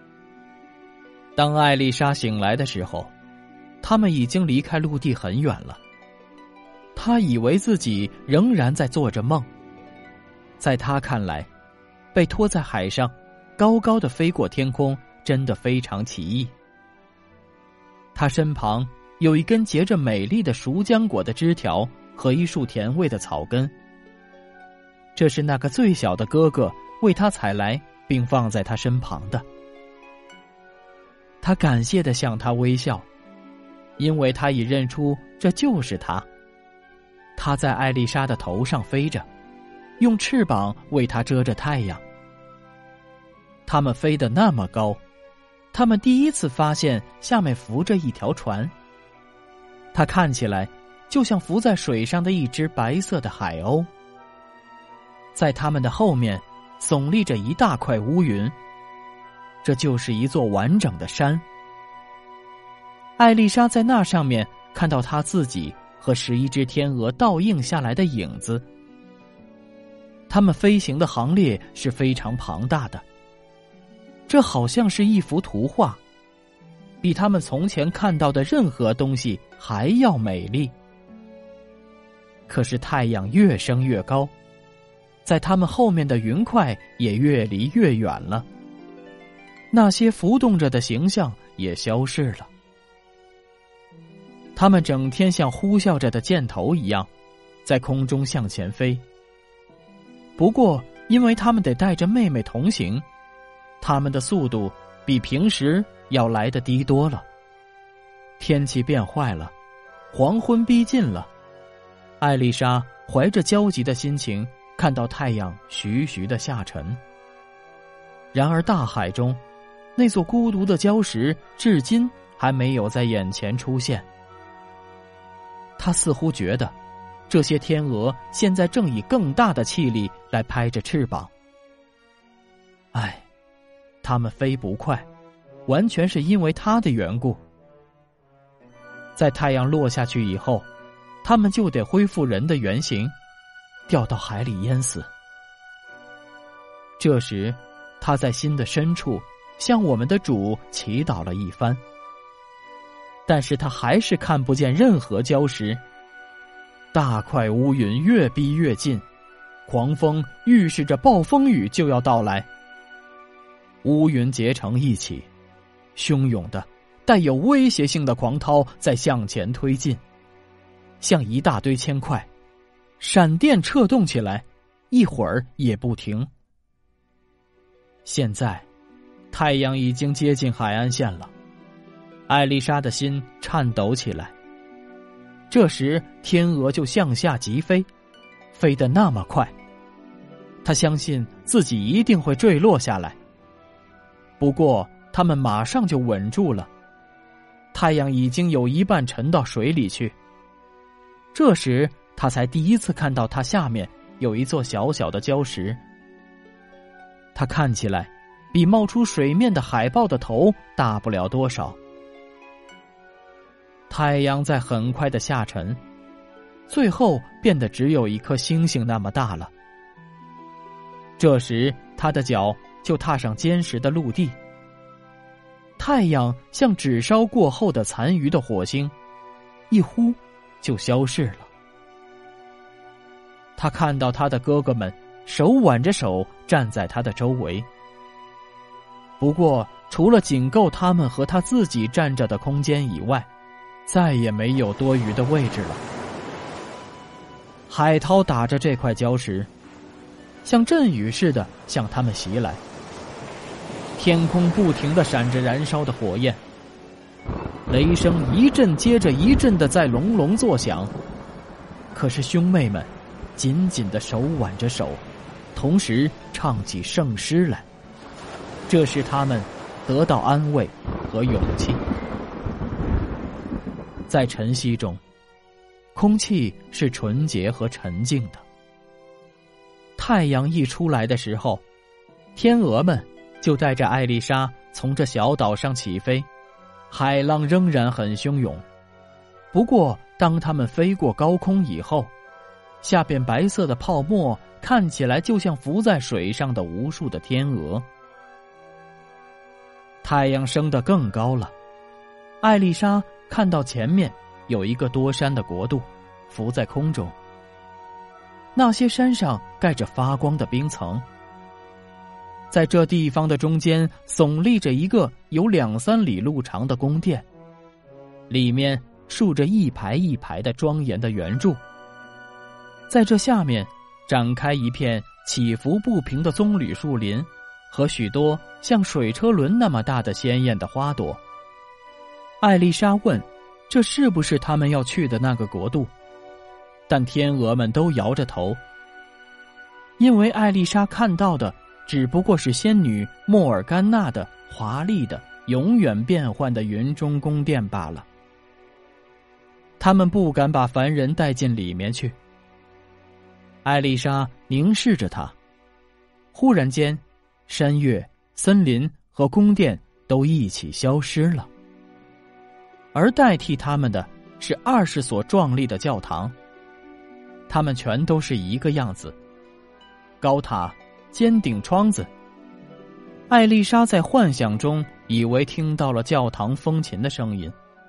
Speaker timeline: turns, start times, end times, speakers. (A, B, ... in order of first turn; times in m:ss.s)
0:01.4-0:03.1 A
0:03.8-0:05.8 A
0:07.0-0:09.5 A
0:10.6-0:11.5 A
0:12.1-0:16.5 A
0:18.2-0:23.7 A
0:25.2-0:29.4 A
0:31.4-0:33.1 A
0:34.0-0:36.3 A
0:37.4-0:39.3 A
0:40.0-0:42.0 A
0:43.7-0:45.0 A
0:45.7-0:48.7 A
0:49.9-0:53.9 A
0:55.4-0:58.6 A
0:59.6-1:01.4 A
1:03.2-1:08.6 A
1:10.3-1:13.0 A
1:14.3-1:16.0 A
1:17.0-1:20.7 A
1:22.5-1:24.3 A
1:25.2-1:28.5 A
1:29.7-1:32.5 A
1:34.6-1:37.1 A
1:37.6-1:39.0 A
1:40.4-1:43.0 A
1:43.8-1:47.3 A
1:48.4-1:49.5 A
1:50.1-1:51.3 A
1:52.2-1:57.0 A
1:58.3-1:59.4 A
2:00.0-2:04.1 A
2:05.8-2:06.8 A
2:07.3-2:11.3 A
2:12.9-2:13.3 A
2:14.0-2:15.1 A
2:15.7-2:17.4 A
2:19.2-2:20.7 A
2:21.2-2:23.1 A
2:23.9-2:25.1 A
2:27.0-2:31.8 A
2:33.3-2:35.8 A
2:36.9-2:39.0 A
2:39.7-2:42.5 A
2:43.8-2:45.3 A
2:46.0-2:50.0 A
2:51.0-2:52.3 A
2:53.0-2:56.3 A
2:58.0-2:58.7 A
2:59.3-3:01.3 A
3:02.3-3:04.4 A
3:05.5-3:07.9 A
3:08.5-3:09.5 A
3:10.6-3:13.2 A
3:14.4-3:16.7 A
3:17.7-3:20.2 A
3:21.3-3:25.8 A
3:27.4-3:31.8 A
3:33.9-3:35.8 A
3:36.7-3:39.5 A
3:41.2-3:44.4 A
3:45.8-3:48.9 A
3:49.7-3:51.5 A
3:53.6-3:57.7 A
3:59.2-4:03.3 A
4:03.9-4:05.8 A
4:07.7-4:09.5 A
4:10.4-4:12.6 A
4:14.0-4:16.4 A
4:17.7-4:20.9 A
4:21.9-4:25.0 A
4:25.5-4:27.7 A
4:28.7-4:31.8 A
4:34.1-4:35.0 A
4:35.9-4:38.4 A
4:40.0-4:41.6 A
4:42.4-4:46.3 A
4:46.9-4:48.6 A
4:49.5-4:52.1 A
4:52.8-4:57.9 A
5:00.0-5:01.5 A
5:02.4-5:07.2 A
5:08.6-5:11.0 A
5:12.5-5:17.3 A
5:18.3-5:21.6 A
5:22.9-5:31.2 A
5:32.4-5:35.9 A
5:36.9-5:38.6 A
5:40.0-5:48.1 A
5:49.8-5:52.2 A
5:53.6-5:55.4 A
5:56.3-6:01.5 A
6:02.9-6:06.4 A
6:07.5-6:09.2 A
6:10.2-6:12.1 A
6:13.3-6:17.6 A